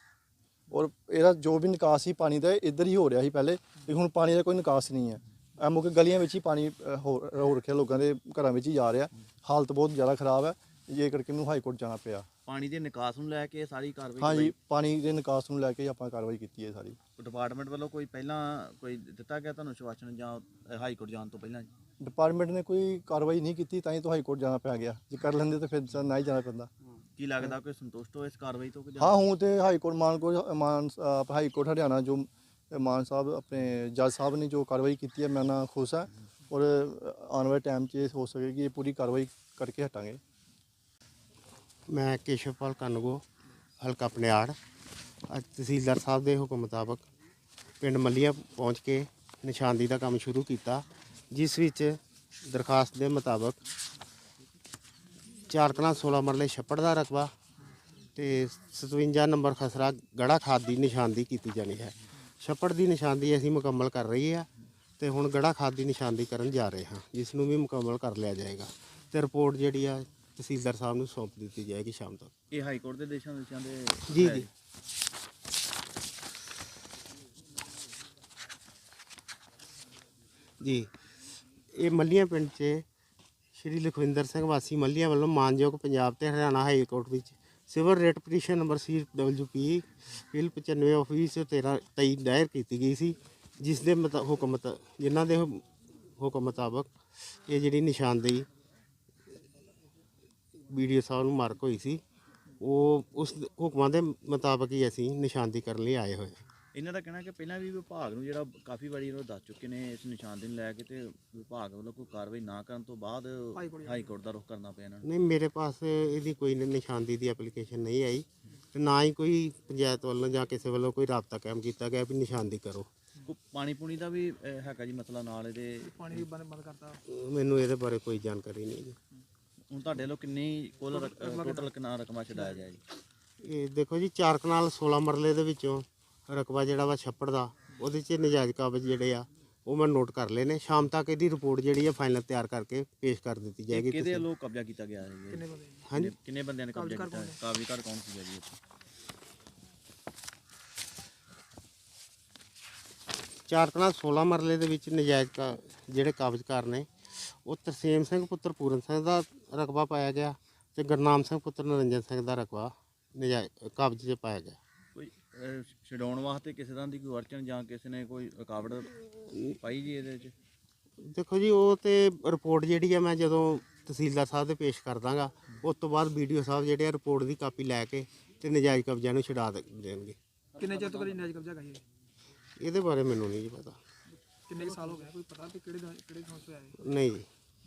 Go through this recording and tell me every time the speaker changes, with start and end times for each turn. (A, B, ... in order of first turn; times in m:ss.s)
0:00.7-0:12.3 A
0:12.4-0:14.5 B
0:14.2-0:17.0 A
0:17.2-0:21.7 B
0:22.0-0:26.7 A
0:27.2-0:29.2 B
0:29.0-0:40.2 A
0:41.9-0:43.2 C
0:43.8-0:44.6 C
0:45.3-0:47.0 C
0:47.8-0:53.6 C
0:55.5-0:57.3 C
0:58.1-1:04.5 C
1:05.0-1:12.3 C
1:12.5-1:14.5 B
1:14.1-1:14.4 C
1:20.6-1:20.9 C
1:21.7-1:22.8 C
1:23.6-1:35.6 C
1:36.2-1:38.5 C
1:40.7-1:42.0 C
1:42.6-1:46.4 C
1:46.7-1:55.0 B
1:53.6-1:54.1 D
1:55.0-2:02.9 C
2:03.2-2:06.3 B
2:05.8-2:07.0 D
2:07.1-2:09.0 C
2:09.7-2:12.8 B
2:10.9-2:11.7 D
2:13.4-2:24.2 C
2:23.7-2:28.5 B
2:25.3-2:25.8 D
2:26.7-2:27.4 D
2:33.5-2:44.6 C
2:44.9-2:49.0 B
2:49.5-2:50.3 B
2:51.0-3:00.2 C
3:00.6-3:01.8 D
3:02.6-3:03.8 C
3:04.5-3:06.8 D
3:06.8-3:07.2 C